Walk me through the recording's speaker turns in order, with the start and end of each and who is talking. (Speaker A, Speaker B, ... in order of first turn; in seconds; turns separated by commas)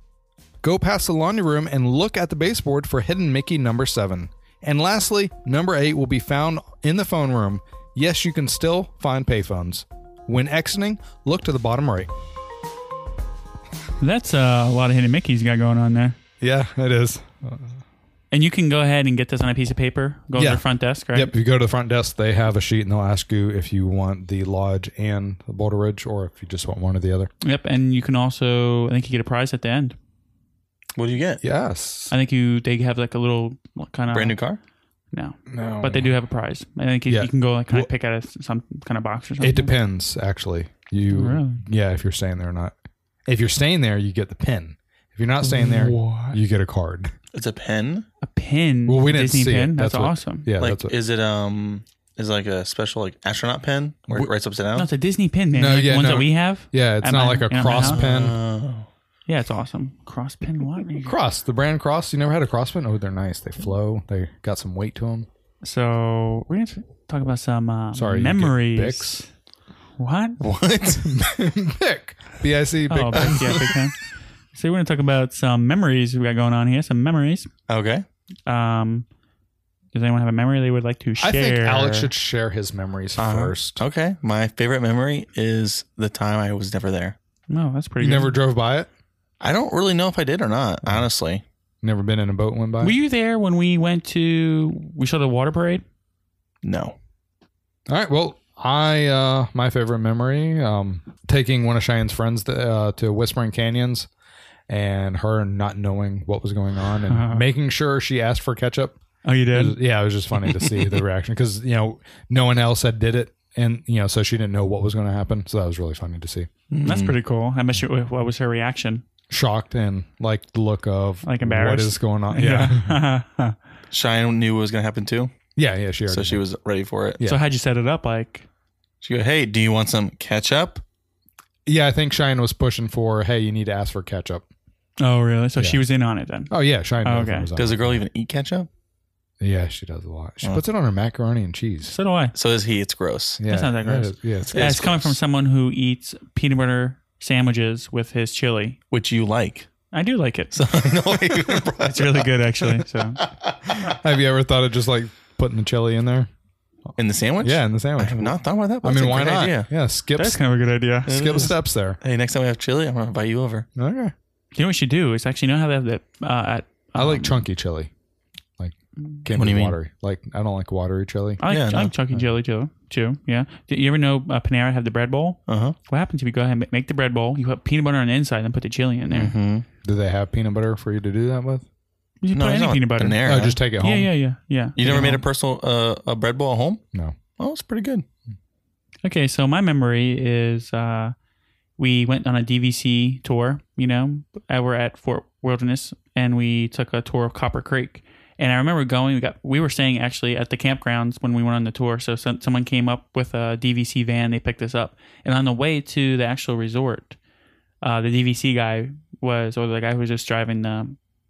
Speaker A: 0.6-12.1, Speaker B: 14.0-16.2, Speaker A: 16.4-17.8, Speaker B: 18.3-21.3, Speaker A: 20.4-27.3, Speaker B: 27.4-30.0, Speaker C: 31.0-31.4, Speaker A: 31.4-32.1, Speaker B: 32.1-34.4, Speaker C: 34.1-34.6, Speaker B: 35.1-39.7, Speaker A: 35.5-36.1, Speaker A: 37.1-37.9, Speaker A: 39.4-42.8, Speaker B: 41.1-41.6, Speaker A: 43.3-47.1, Speaker C: 45.7-46.3, Speaker C: 47.3-48.1, Speaker B: 48.2-50.5, Speaker A: 48.9-51.0, Speaker C: 50.6-54.9, Speaker B: 54.8-58.0, Speaker A: 55.5-58.4, Speaker C: 57.8-58.9, Speaker B: 59.3-61.2, Speaker A: 61.0-65.3, Speaker B: 65.6-69.3, Speaker A: 67.9-69.2, Speaker B: 70.0-70.4, Speaker C: 70.4-71.2, Speaker A: 71.0-73.8, Speaker B: 72.9-74.0, Speaker C: 73.2-73.6, Speaker B: 74.5-77.5, Speaker C: 77.7-78.0, Speaker B: 78.5-79.1, Speaker B: 79.9-82.1, Speaker A: 81.2-83.8, Speaker C: 83.2-87.2, Speaker B: 87.5-88.4, Speaker A: 88.0-88.9, Speaker C: 89.4-91.4, Speaker A: 91.8-93.0, Speaker B: 92.8-95.8, Speaker C: 96.6-97.0, Speaker A: 97.9-104.1, Speaker A: 104.7-116.5, Speaker B: 107.1-107.5, Speaker B: 109.2-109.8, Speaker C: 116.7-117.2, Speaker B: 116.8-119.0, Speaker A: 119.3-123.0, Speaker B: 121.2-123.6, Speaker C: 123.9-125.3, Speaker A: 125.6-126.4, Speaker C: 126.1-127.2, Speaker B: 127.2-128.5, Speaker C: 129.0-130.8, Speaker A: 131.7-134.4, Speaker B: 135.0-136.5, Speaker A: 136.5-138.0, Speaker B: 137.0-137.5, Speaker C: 137.6-138.7, Speaker A: 139.4-141.9, Speaker B: 141.9-142.3, Speaker C: 142.3-143.4, Speaker A: 143.4-144.9, Speaker B: 143.4-148.8, Speaker C: 144.5-145.2, Speaker C: 148.9-149.7, Speaker B: 149.9-150.6, Speaker C: 150.5-153.9, Speaker B: 151.8-153.2, Speaker A: 153.8-156.3, Speaker C: 157.0-159.7, Speaker A: 157.4-160.4, Speaker B: 160.2-161.1, Speaker A: 161.1-162.0, Speaker C: 161.1-163.7, Speaker A: 163.8-164.1, Speaker B: 164.6-167.4, Speaker A: 167.0-167.9, Speaker A: 168.6-171.4, Speaker C: 169.3-169.8, Speaker B: 171.4-179.3, Speaker C: 171.5-171.9, Speaker C: 175.5-175.8, Speaker C: 179.1-179.7, Speaker A: 179.8-181.7, Speaker B: 182.2-183.2, Speaker C: 182.3-183.6, Speaker A: 183.2-184.1, Speaker B: 183.8-185.2, Speaker C: 184.8-186.8, Speaker C: 187.4-188.1, Speaker B: 189.0-191.2, Speaker B: 191.8-207.2, Speaker B: 207.8-211.0